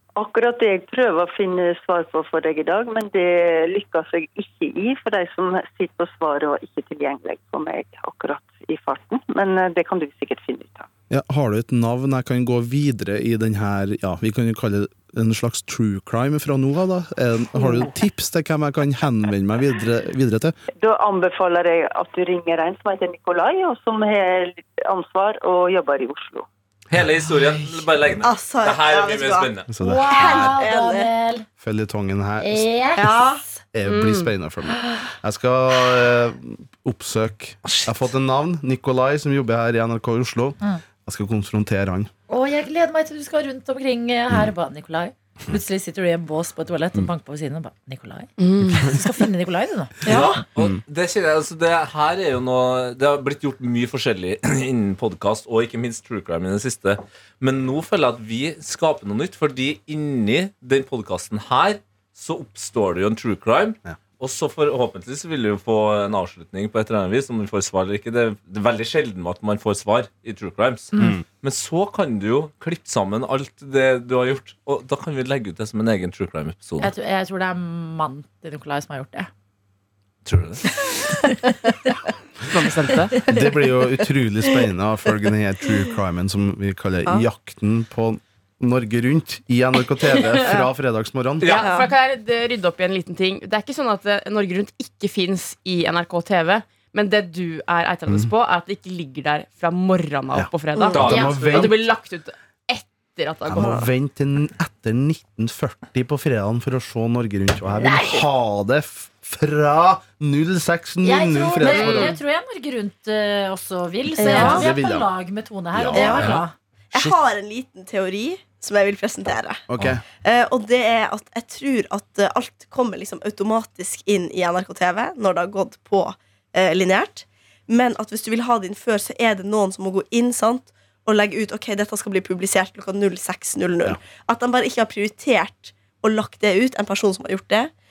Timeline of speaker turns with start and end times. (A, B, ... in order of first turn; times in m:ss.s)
0:00.2-0:10.9 A
0:11.1-0:20.6 B
0:17.6-0:17.9 C
0:20.8-0:26.5 A
0:26.9-0:29.7 D
0:28.2-0:29.5 E
0:29.7-0:30.6 B
0:29.8-0:31.5 C
0:30.1-0:31.1 E
0:31.6-0:32.7 B
0:32.4-0:33.3 C
0:33.0-0:33.4 E
0:33.7-0:42.1 B
0:33.9-0:34.3 F
0:37.6-0:38.1 D
0:42.3-0:50.2 C
0:48.4-0:48.9 F
0:50.0-0:50.4 E
0:50.0-1:16.9 D
1:11.0-1:11.2 B
1:16.8-1:19.3 C
1:20.2-1:20.8 D
1:21.1-1:21.5 C
1:22.5-1:23.2 F
1:23.3-1:31.5 B
1:31.4-1:31.8 D
1:31.4-1:43.8 F
1:31.6-1:31.9 E
1:38.1-1:38.3 B
1:40.3-1:41.9 B
1:40.8-1:41.0 E
1:40.9-1:41.7 D
1:41.0-1:41.4 C
1:43.5-1:52.2 B
1:43.6-1:43.9 E
1:47.8-1:48.2 C
1:51.0-1:56.5 C
1:51.6-1:52.2 F
1:54.2-1:54.7 E
1:54.2-1:55.1 B
1:55.7-1:56.4 B
1:55.9-1:56.4 E
1:56.2-1:56.4 D
1:56.9-1:59.6 E
1:59.7-2:00.0 B
2:00.2-2:17.7 E